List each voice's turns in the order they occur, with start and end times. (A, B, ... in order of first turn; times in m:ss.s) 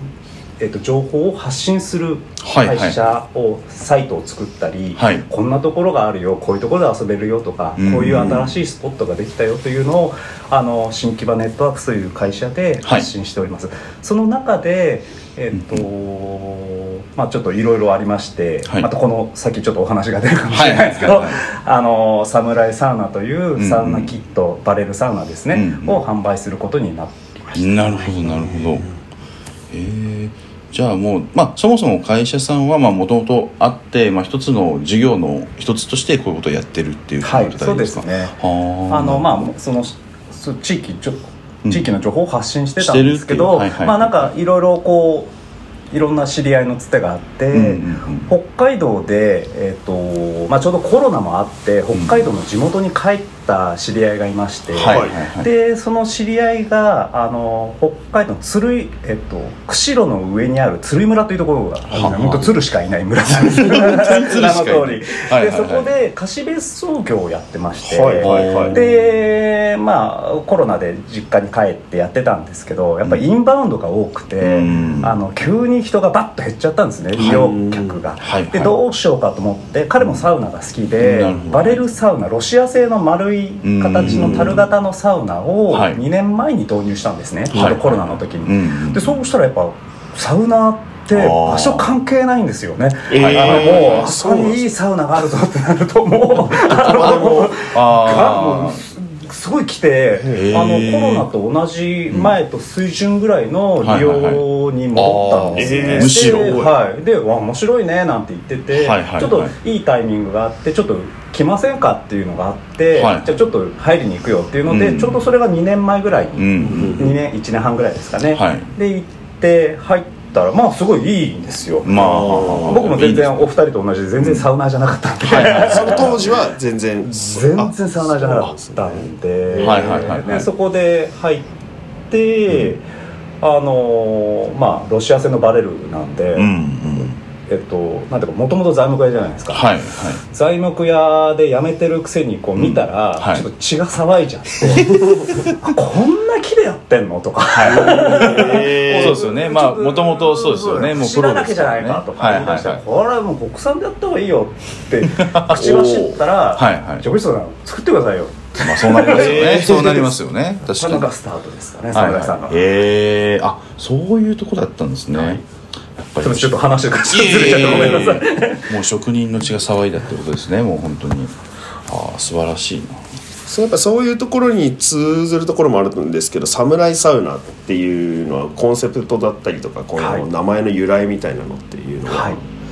0:00.6-0:28.1 A
0:02.4-0:03.1 B
0:05.0-0:05.3 B
0:07.8-0:08.5 B
0:08.1-0:08.4 C
0:15.6-0:15.8 B
0:20.5-0:21.4 B
0:23.6-0:24.1 B
0:25.5-0:26.0 B
0:27.5-0:28.9 B
0:28.3-0:28.8 C
0:29.7-0:39.5 B
0:37.2-0:38.4 A
0:38.9-0:45.3 A
0:42.8-0:44.3 B
0:45.9-2:06.4 A
0:47.5-0:48.3 B
0:51.9-0:52.3 B
0:54.7-0:55.5 B
0:54.9-0:55.2 C
1:01.9-1:02.6 B
1:03.4-1:05.9 B
1:07.8-1:08.8 C
1:08.2-1:08.9 B
1:14.4-1:15.2 B
1:17.2-1:18.0 C
1:18.2-1:18.8 B
1:20.0-1:20.2 B
1:21.0-1:21.8 B
1:23.6-1:24.6 B
1:24.0-1:24.6 C
1:25.7-1:26.0 B
1:27.5-1:29.2 B
1:31.1-1:31.9 B
1:33.1-1:34.6 C
1:33.1-1:34.1 B
1:36.5-1:38.8 B
1:36.6-1:37.6 C
1:40.3-1:41.3 B
1:42.1-1:42.4 B
1:43.8-1:46.6 B
1:45.6-1:46.7 C
1:48.7-1:49.5 B
1:53.0-1:53.4 B
1:54.7-1:55.2 B
1:56.4-1:57.2 B
1:56.6-1:57.2 C
1:58.3-1:58.7 B
2:01.8-2:03.5 B
2:01.9-2:02.8 C
2:04.2-2:04.5 B
2:05.2-2:06.3 B
2:05.6-2:09.9 C
2:07.1-2:11.5 A
2:09.6-2:10.5 B
2:12.1-2:12.8 A
2:13.4-2:19.6 A
2:16.4-2:17.2 B
2:19.5-2:20.2 B
2:20.3-2:40.1 A
2:22.6-2:23.5 B
2:27.5-2:32.8 B
2:27.6-2:29.2 C
2:35.1-2:35.6 B
2:35.5-2:36.2 C
2:36.5-2:37.0 B
2:38.6-2:41.1 B
2:39.1-2:39.9 C
2:40.6-2:42.6 A
2:41.9-2:45.4 B
2:45.2-2:45.4 A
2:46.1-2:51.3 B
2:46.2-2:48.7 A
2:51.9-2:53.2 B
2:53.5-3:02.4 C
3:00.0-3:00.3 A
3:02.1-3:02.4 A